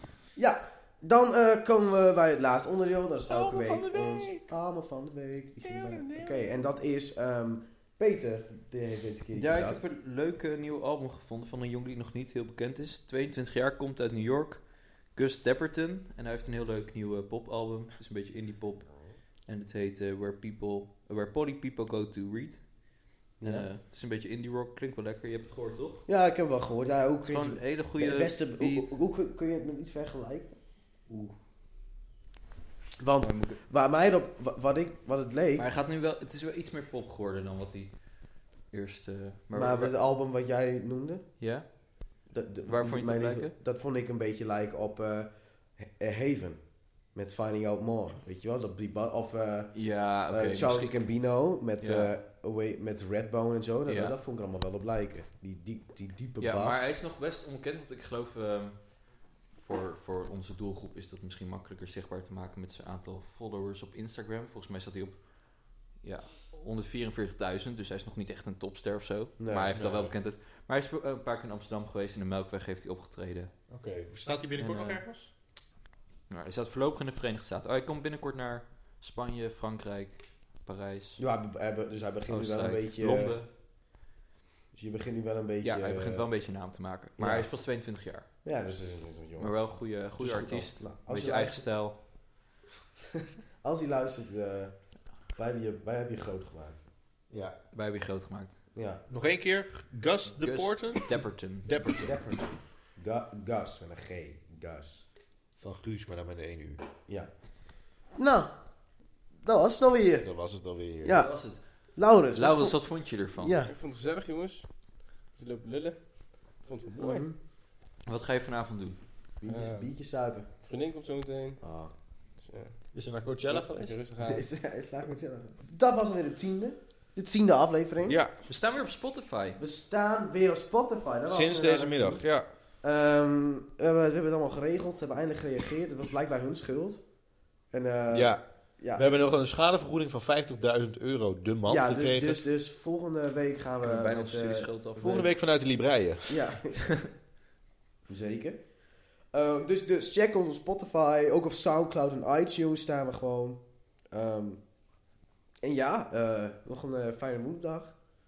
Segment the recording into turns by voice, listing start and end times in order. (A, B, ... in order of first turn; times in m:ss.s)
0:00.4-0:09.8 A
0:03.3-0:04.4 B
0:05.7-0:06.3 B
0:09.3-0:26.1 B
0:23.4-0:23.7 A
0:26.1-0:30.6 A
0:27.2-0:28.9 B
0:31.1-0:31.4 B
0:33.0-0:35.6 A
0:33.2-0:33.6 B
0:35.6-0:39.9 B
0:39.5-0:41.3 A
0:41.4-0:43.5 B
0:42.3-0:56.9 A
0:49.7-0:51.1 B
0:51.8-0:52.1 B
0:53.8-0:54.1 B
0:56.4-1:13.6 B
1:09.4-1:09.7 A
1:09.7-1:10.1 C
1:13.7-1:15.3 C
1:14.6-1:15.0 B
1:16.3-1:21.2 B
1:21.2-1:23.4 A
1:22.3-1:23.5 B
1:24.7-1:26.3 A
1:25.6-1:28.3 B
1:27.2-1:27.5 A
1:28.4-1:31.8 A
1:29.4-1:32.0 B
1:30.2-1:30.7 C
1:33.6-1:36.8 A
1:37.3-1:37.6 C
1:37.7-1:38.6 B
1:38.7-1:39.0 A
1:39.1-1:42.2 C
1:40.4-1:41.8 B
1:42.0-1:45.0 A
1:45.6-1:46.8 C
1:47.1-1:47.3 A
1:47.8-1:48.6 A
1:49.4-1:50.3 A
1:50.2-1:51.3 C
1:51.0-1:53.7 A
1:51.1-1:53.6 B
1:53.7-1:57.2 D
1:57.0-1:57.4 A
1:58.0-1:59.0 B
1:59.4-2:00.5 A
1:59.5-1:59.9 D
2:00.6-2:01.6 D
2:01.6-2:01.9 A
2:02.4-2:02.9 D
2:02.9-2:04.0 C
2:03.5-2:04.5 D
2:04.2-2:08.2 A
2:08.0-2:08.3 C
2:08.4-2:09.6 B
2:09.6-2:12.2 A
2:11.2-2:12.5 C
2:12.8-2:19.0 A
2:18.1-2:22.4 C
2:21.6-2:25.3 A
2:23.8-2:25.3 B
2:25.0-2:26.4 C
2:26.3-2:27.0 A
2:28.1-2:28.7 A
2:29.3-2:34.6 A
2:35.6-2:37.9 A